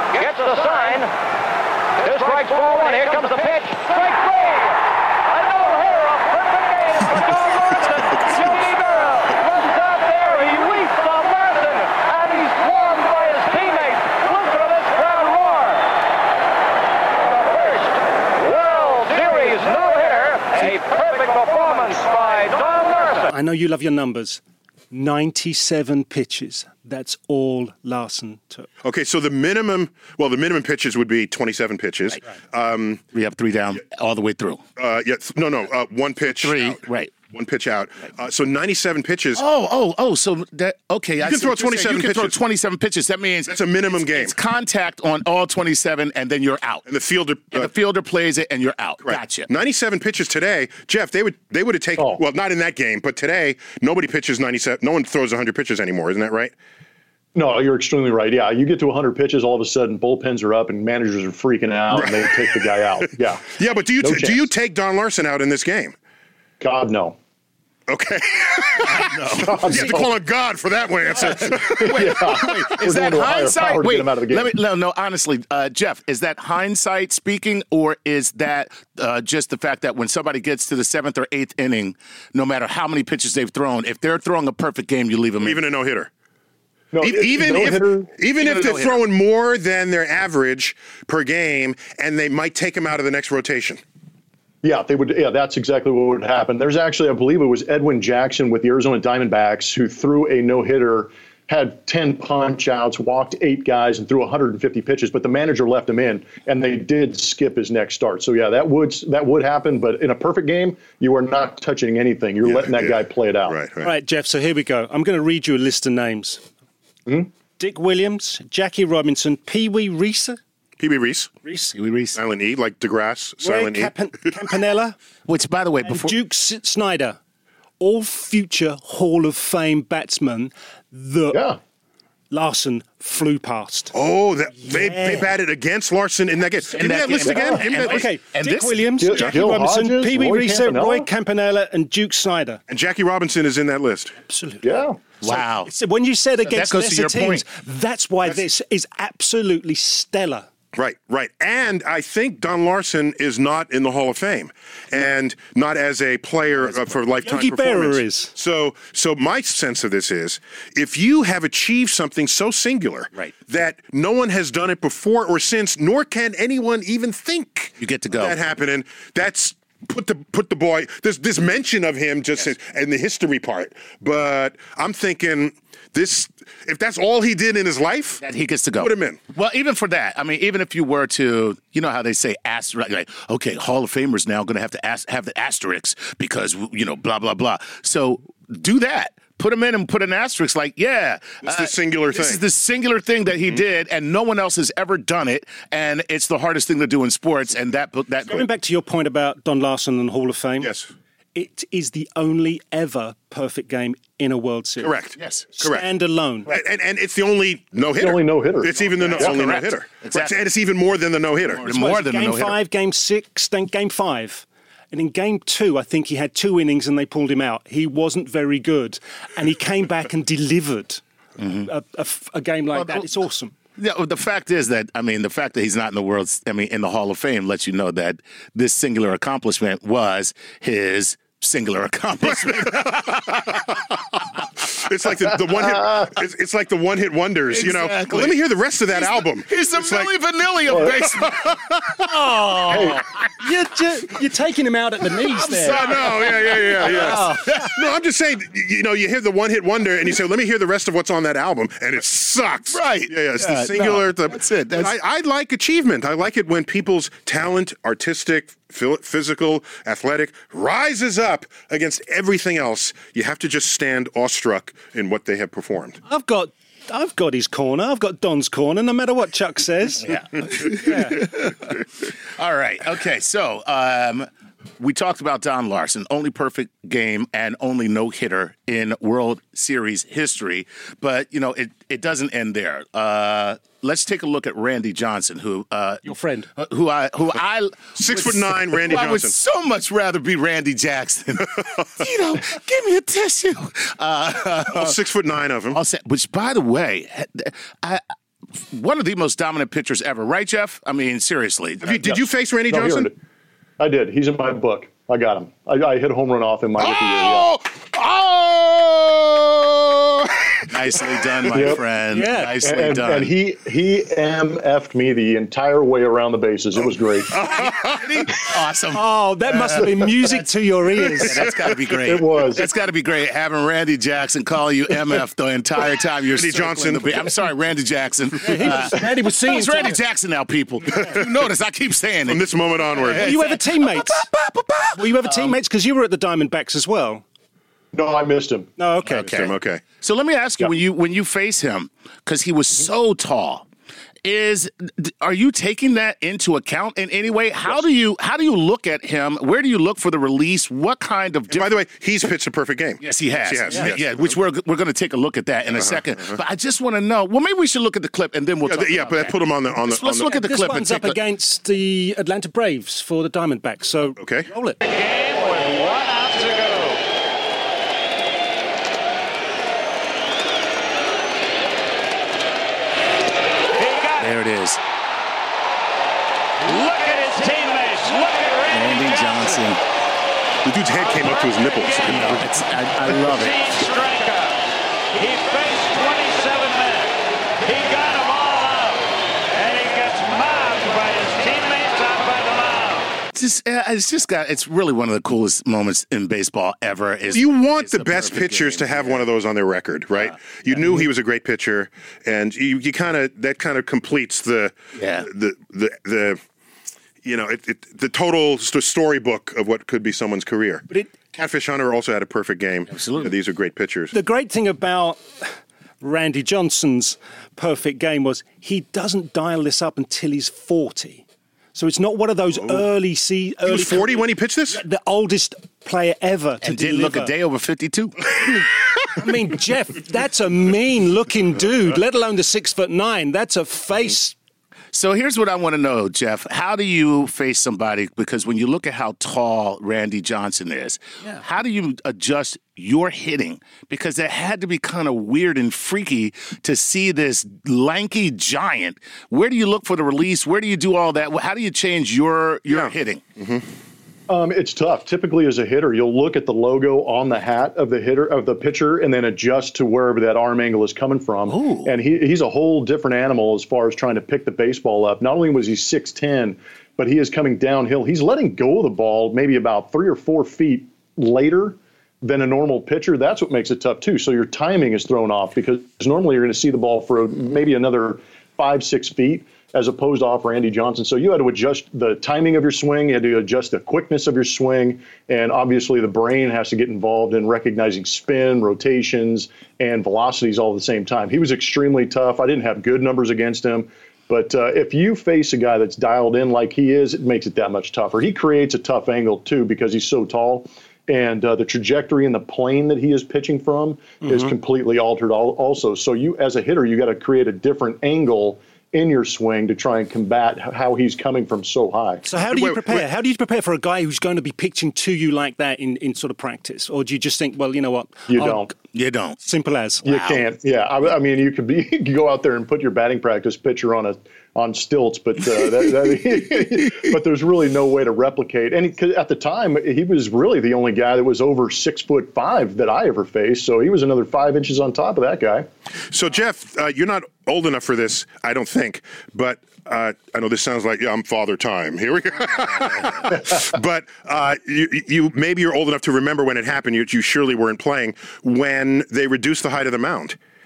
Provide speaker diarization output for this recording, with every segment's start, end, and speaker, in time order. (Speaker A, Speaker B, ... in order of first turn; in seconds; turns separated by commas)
Speaker A: 7.0-9.6, Speaker B: 23.2-28.7, Speaker A: 28.8-33.0, Speaker C: 33.1-34.6, Speaker A: 34.8-39.4, Speaker C: 36.3-37.1, Speaker C: 39.3-46.8, Speaker A: 41.2-42.4, Speaker A: 43.5-44.4, Speaker A: 46.9-47.7, Speaker C: 47.5-49.5, Speaker A: 49.0-56.5, Speaker D: 52.0-52.2, Speaker D: 57.3-64.5, Speaker A: 61.9-65.9, Speaker D: 66.6-67.2, Speaker A: 67.9-72.6, Speaker C: 68.8-69.8, Speaker D: 69.3-70.1, Speaker D: 71.2-74.5, Speaker C: 71.2-85.6, Speaker A: 85.4-86.1, Speaker D: 86.9-88.1, Speaker A: 87.0-93.8, Speaker C: 88.4-89.0, Speaker D: 94.6-113.5, Speaker A: 112.4-113.9, Speaker B: 113.8-116.4, Speaker B: 117.6-120.4, Speaker A: 120.8-121.3, Speaker B: 121.4-121.8, Speaker C: 121.7-122.2, Speaker A: 122.2-123.9, Speaker B: 123.4-125.0, Speaker C: 125.2-126.2, Speaker B: 125.8-127.2, Speaker B: 127.8-131.4, Speaker D: 131.3-131.6, Speaker B: 132.3-133.9, Speaker A: 133.9-138.1, Speaker B: 134.6-135.3, Speaker C: 136.7-139.0, Speaker D: 137.3-137.6, Speaker B: 137.6-142.6, Speaker D: 139.0-141.1, Speaker A: 142.7-144.1, Speaker B: 144.2-144.7, Speaker D: 144.6-145.0, Speaker C: 145.2-145.7, Speaker B: 145.2-150.5, Speaker C: 146.5-147.4, Speaker A: 150.7-178.2, Speaker B: 157.2-158.3, Speaker C: 167.8-168.4, Speaker C: 178.2-198.4, Speaker A: 178.8-179.2, Speaker A: 191.4-192.4, Speaker B: 198.3-200.7, Speaker A: 200.6-200.9, Speaker B: 201.3-204.9, Speaker A: 204.8-205.8, Speaker C: 205.2-205.5, Speaker B: 205.5-206.5, Speaker A: 206.5-211.6, Speaker D: 208.0-209.3, Speaker C: 209.1-210.3, Speaker C: 211.5-212.6, Speaker B: 211.6-223.5, Speaker C: 221.4-221.7, Speaker C: 222.7-223.1, Speaker C: 223.8-233.6, Speaker A: 232.2-240.1, Speaker C: 237.5-243.4, Speaker D: 240.7-241.0, Speaker A: 240.7-242.1, Speaker D: 242.7-242.9, Speaker B: 242.9-245.8, Speaker C: 245.2-247.8, Speaker A: 245.7-266.0, Speaker B: 246.8-247.5, Speaker C: 252.7-254.9, Speaker B: 266.1-271.3, Speaker C: 270.0-295.0, Speaker B: 286.0-286.5, Speaker A: 287.9-289.4, Speaker A: 294.7-295.8, Speaker C: 295.7-298.0, Speaker C: 298.5-302.0, Speaker A: 301.8-303.1, Speaker D: 302.0-303.1, Speaker D: 303.8-307.5, Speaker A: 306.8-310.6, Speaker C: 310.7-313.3, Speaker D: 311.5-311.8, Speaker B: 312.1-312.6, Speaker D: 312.6-317.4, Speaker A: 317.3-318.3, Speaker C: 317.3-320.4, Speaker B: 318.9-321.5, Speaker C: 321.1-335.6, Speaker D: 321.9-322.6, Speaker A: 326.2-327.4, Speaker B: 328.4-330.0, Speaker A: 331.0-331.3, Speaker A: 332.3-333.3, Speaker B: 333.1-334.3, Speaker B: 334.9-337.2, Speaker D: 337.9-338.7, Speaker B: 338.8-339.3, Speaker C: 339.0-343.6, Speaker A: 339.2-339.8, Speaker C: 344.2-351.7, Speaker A: 351.5-354.3, Speaker C: 353.0-361.2, Speaker A: 355.9-356.4, Speaker A: 358.6-360.4, Speaker B: 360.3-364.8, Speaker A: 364.2-364.5, Speaker E: 364.8-367.0, Speaker E: 373.8-374.2, Speaker C: 374.2-374.8, Speaker E: 376.6-379.4, Speaker C: 378.7-379.8, Speaker A: 380.6-382.5, Speaker E: 381.8-382.0, Speaker C: 382.1-383.6, Speaker E: 383.3-384.6, Speaker E: 385.1-393.1, Speaker C: 393.3-399.2, Speaker A: 397.3-406.4, Speaker C: 400.3-401.0, Speaker C: 404.9-405.3, Speaker A: 407.2-414.1, Speaker C: 412.9-413.3, Speaker B: 414.1-421.2, Speaker B: 421.7-427.3, Speaker A: 423.6-424.8, Speaker C: 426.6-428.6, Speaker B: 429.1-434.4, Speaker C: 434.9-453.2, Speaker A: 452.7-453.6, Speaker D: 454.3-512.2, Speaker C: 461.5-461.9, Speaker B: 504.2-504.5, Speaker B: 512.2-518.7, Speaker A: 512.4-513.0, Speaker D: 518.3-518.7, Speaker C: 518.9-519.4, Speaker B: 519.4-520.1, Speaker C: 520.0-520.4, Speaker D: 520.0-535.7, Speaker A: 536.1-550.4